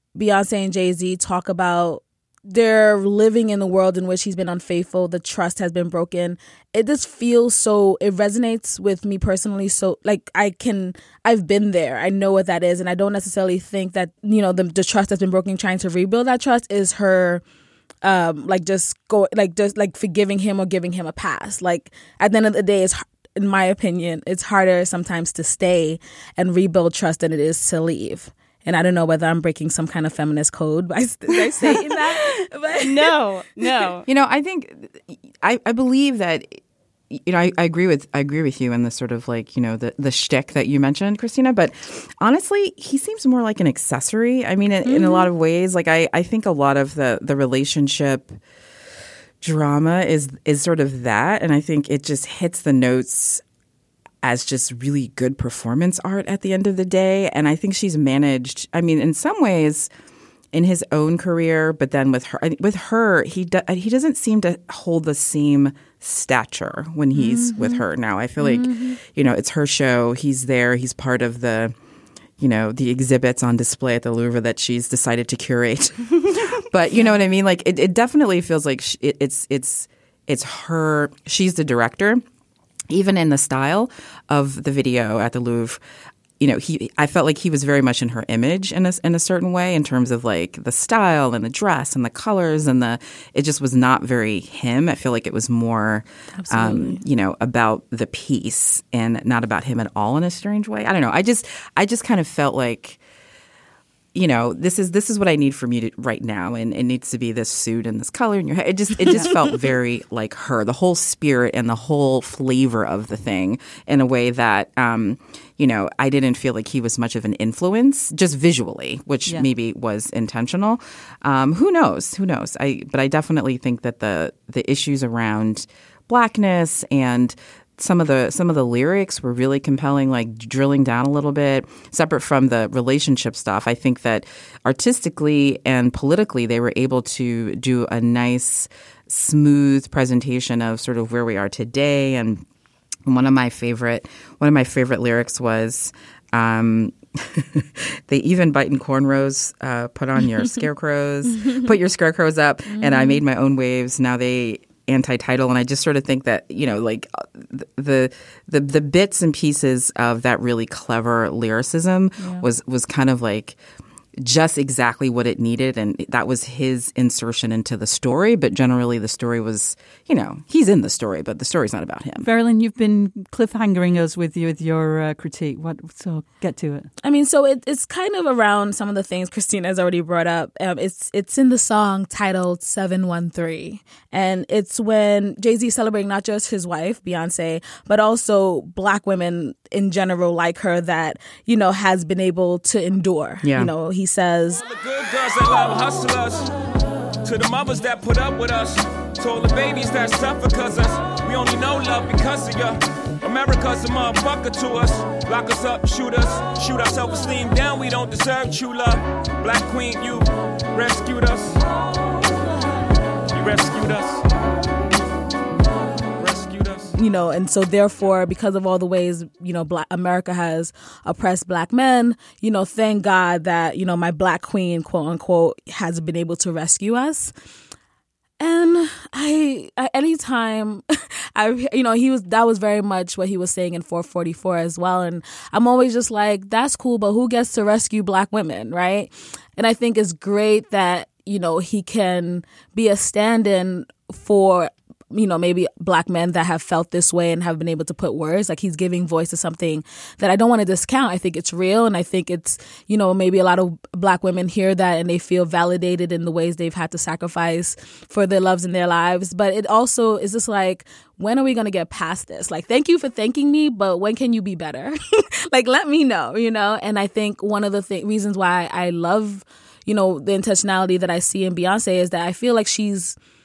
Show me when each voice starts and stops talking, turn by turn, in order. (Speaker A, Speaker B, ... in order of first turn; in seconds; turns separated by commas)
Speaker A: 0.1-17.4, Speaker A: 18.0-33.1, Speaker B: 31.6-34.1, Speaker C: 34.1-48.4, Speaker A: 44.8-45.3, Speaker C: 49.4-53.4, Speaker C: 54.2-59.9, Speaker C: 60.5-71.8, Speaker A: 67.1-67.8, Speaker A: 68.4-68.9, Speaker C: 72.4-82.2, Speaker C: 82.9-85.8, Speaker C: 86.4-103.0, Speaker A: 96.3-97.0, Speaker C: 104.1-142.4, Speaker C: 143.1-163.6, Speaker A: 152.7-153.2, Speaker C: 164.2-172.3, Speaker D: 172.2-176.9, Speaker A: 177.0-194.6, Speaker C: 193.4-193.7, Speaker E: 194.6-196.5, Speaker E: 197.2-211.6, Speaker E: 213.3-214.2, Speaker E: 216.2-216.9, Speaker A: 216.9-227.3, Speaker A: 228.4-273.2